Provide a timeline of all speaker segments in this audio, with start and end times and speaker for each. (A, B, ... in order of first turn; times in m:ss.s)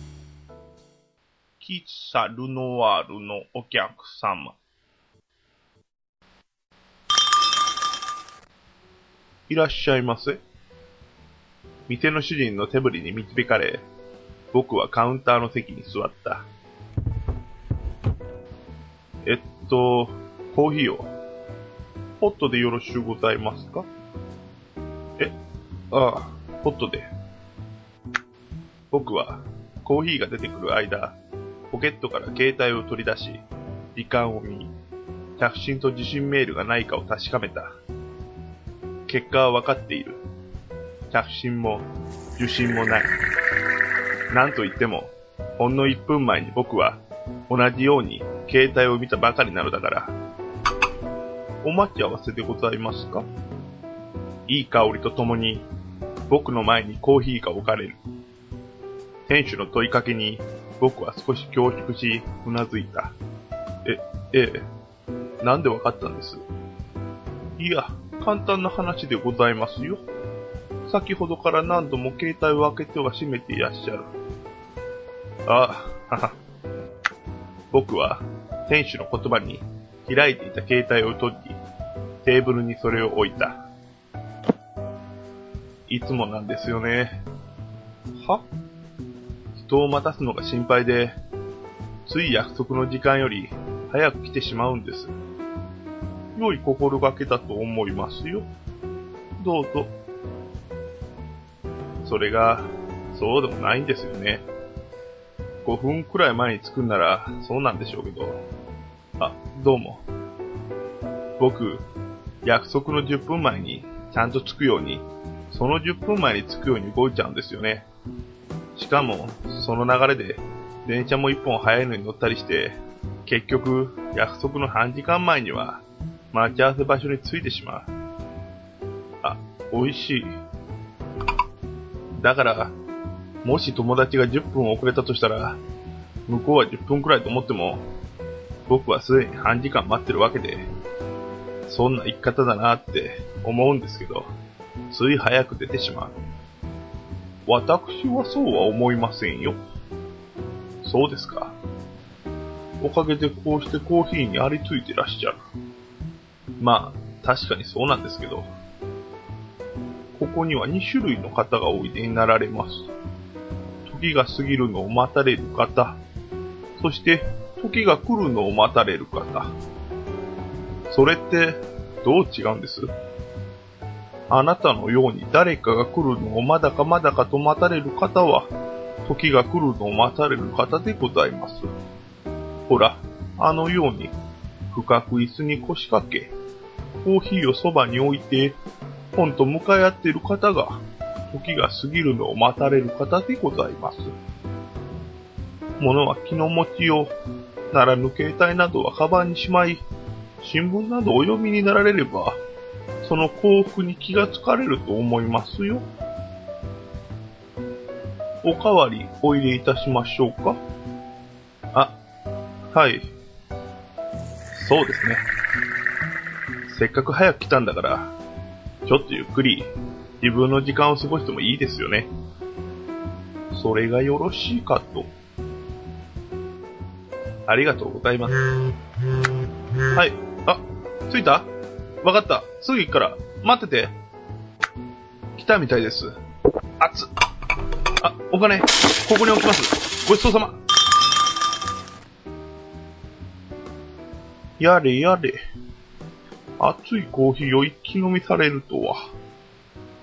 0:01.6-0:04.5 A
0:09.5-0:10.4 A
0:11.9-0:13.8 A
0:14.5-0:16.4 A
0:19.2-0:21.1 A
0:22.2-0:23.9 A
0:25.9-0:27.1 A
0:28.9-0:31.2 A
0:31.7-0:33.4 A
0:33.9-0:34.7 A
0:35.4-0:37.7 A
0:39.1-0:40.2 A
0:41.1-0:43.1 A
0:44.3-0:50.1 A
0:51.6-0:53.2 A
0:54.5-0:55.7 A
0:56.3-0:58.0 A
0:59.3-1:03.1 A
1:03.8-1:04.6 A
1:05.4-1:06.4 A
1:07.6-1:10.0 A
1:10.9-1:14.1 A
1:15.5-1:16.3 A
1:17.7-1:21.6 A
1:22.2-1:23.6 A
1:25.9-1:27.2 A
1:29.6-1:31.1 A
1:32.0-1:35.1 A
1:36.3-1:38.5 A
1:39.4-1:39.9 A
1:42.0-1:44.4 A
1:45.6-1:48.4 A
1:49.2-1:50.0 A
1:51.4-1:51.8 A
1:52.4-1:57.8 A
1:58.8-2:07.9 A
2:09.2-2:10.3 A
2:12.2-2:12.7 A
2:13.4-2:15.6 A
2:16.3-2:17.8 A
2:18.7-2:20.7 A
2:21.7-2:24.3 A
2:24.9-2:26.1 A
2:27.4-2:29.6 A
2:30.8-2:31.5 A
2:32.8-2:35.4 A
2:36.6-2:38.5 A
2:40.1-2:42.9 A
2:43.8-2:46.0 A
2:46.8-2:49.5 A
2:50.9-2:52.9 A
2:54.3-2:58.5 A
2:59.0-3:01.7 A
3:02.7-3:04.1 A
3:04.7-3:06.3 A
3:07.0-3:08.6 A
3:09.1-3:14.1 A
3:15.8-3:17.1 A
3:17.7-3:19.8 A
3:20.4-3:22.4 A
3:23.0-3:25.8 A
3:28.4-3:30.6 A
3:32.7-3:33.1 A
3:34.5-3:35.2 A
3:36.7-3:38.1 A
3:38.8-3:39.7 A
3:40.2-3:42.1 A
3:43.5-3:45.1 A
3:47.5-3:48.4 A
3:49.9-3:51.5 A
3:52.0-3:53.9 A
3:55.4-3:56.1 A
3:56.8-3:57.1 A
3:58.0-4:00.6 A
4:04.6-4:05.4 A
4:06.6-4:09.0 A